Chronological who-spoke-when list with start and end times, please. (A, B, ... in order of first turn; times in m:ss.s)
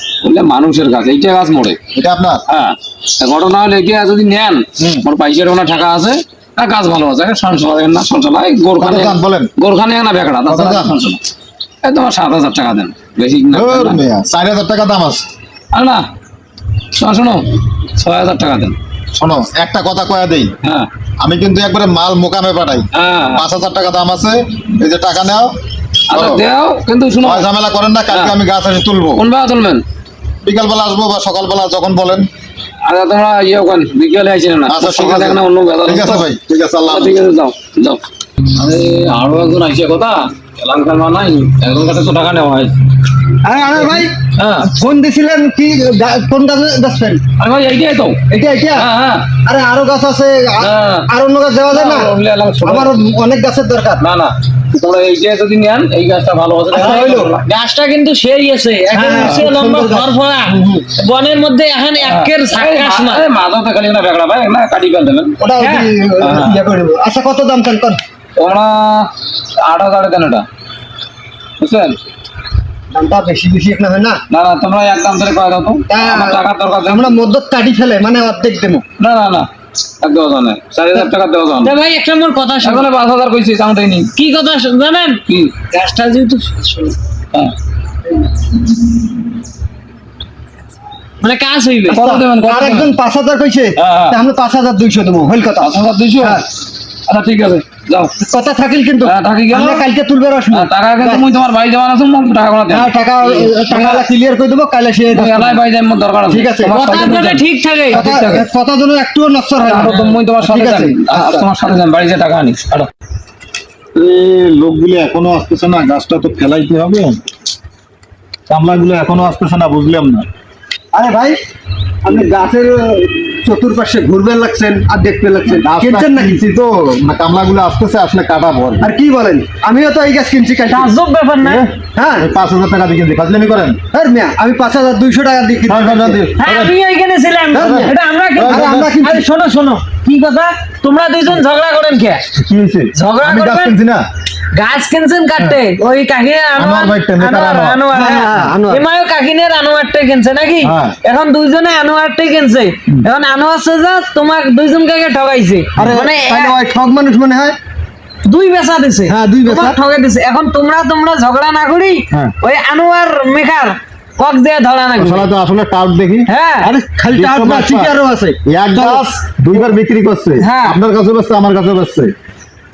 0:00.2-0:01.8 A
0:01.9-0:02.4 B
0:02.5-0:11.2 A
0:04.8-0:05.0 B
0:08.8-0:09.5 B
0:10.5-0:10.9 B
0:11.8-0:14.0 A
0:13.5-0:15.3 B
0:15.7-0:16.0 A
0:17.0-0:18.8 A
0:19.2-0:20.5 B
0:20.6-0:20.9 A
0:21.2-0:25.5 B
0:22.9-0:23.4 A
0:26.1-0:27.5 A
0:26.1-0:26.4 B
0:27.2-0:29.2 B
0:28.1-0:28.4 A
0:29.2-0:29.8 A
0:30.4-0:32.3 B
0:32.8-0:36.2 A
0:34.7-0:37.2 B
0:36.8-0:38.0 A
0:38.5-0:42.8 A
0:43.4-0:47.2 C
0:43.8-0:44.7 A
0:47.4-0:48.2 A
0:48.3-0:48.9 C
0:48.7-0:49.3 A
0:49.4-0:52.1 C
0:50.6-0:51.0 A
0:51.7-0:53.0 A
0:52.6-0:54.0 C
0:54.0-0:57.4 A
0:56.7-0:57.3 C
0:57.4-1:03.2 D
0:58.9-1:00.9 C
1:02.0-1:06.6 A
1:05.4-1:08.0 C
1:08.4-1:10.4 A
1:11.6-1:12.0 A
1:12.9-1:14.2 C
1:14.3-1:17.2 A
1:15.9-1:18.8 C
1:19.0-1:19.5 A
1:20.0-1:21.8 A
1:21.6-1:22.9 D
1:22.6-1:24.1 A
1:24.1-1:27.0 D
1:25.3-1:25.6 A
1:31.2-1:32.0 D
1:31.9-1:36.4 C
1:31.9-1:32.9 A
1:33.8-1:34.2 A
1:35.6-1:36.4 A
1:37.1-1:38.1 A
1:38.2-1:41.2 C
1:39.0-1:39.9 A
1:40.5-1:44.0 A
1:42.7-1:45.6 C
1:45.1-1:48.5 A
1:46.3-1:46.8 C
1:46.7-1:48.1 D
1:47.9-1:51.5 C
1:49.6-1:52.9 A
1:53.9-1:57.2 B
1:58.5-2:00.3 B
2:00.9-2:01.4 C
2:02.0-2:06.4 C
2:05.6-2:08.9 B
2:08.8-2:10.9 C
2:10.7-2:11.7 D
2:11.4-2:13.8 B
2:11.9-2:12.2 C
2:13.9-2:16.2 C
2:15.7-2:16.8 B
2:16.4-2:22.2 D
2:17.5-2:17.9 C
2:17.6-2:18.9 B
2:18.5-2:19.2 C
2:22.4-2:24.0 B
2:22.9-2:23.8 D
2:24.5-2:36.6 D
2:26.6-2:27.8 B
2:27.9-2:28.8 C
2:30.6-2:31.0 B
2:35.8-2:37.6 C
2:38.2-2:45.2 D
2:39.1-2:39.8 C
2:45.0-2:46.3 B
2:46.3-2:46.7 D
2:46.6-2:49.7 C
2:47.1-2:47.9 B
2:48.5-2:52.1 B
2:50.4-2:50.8 D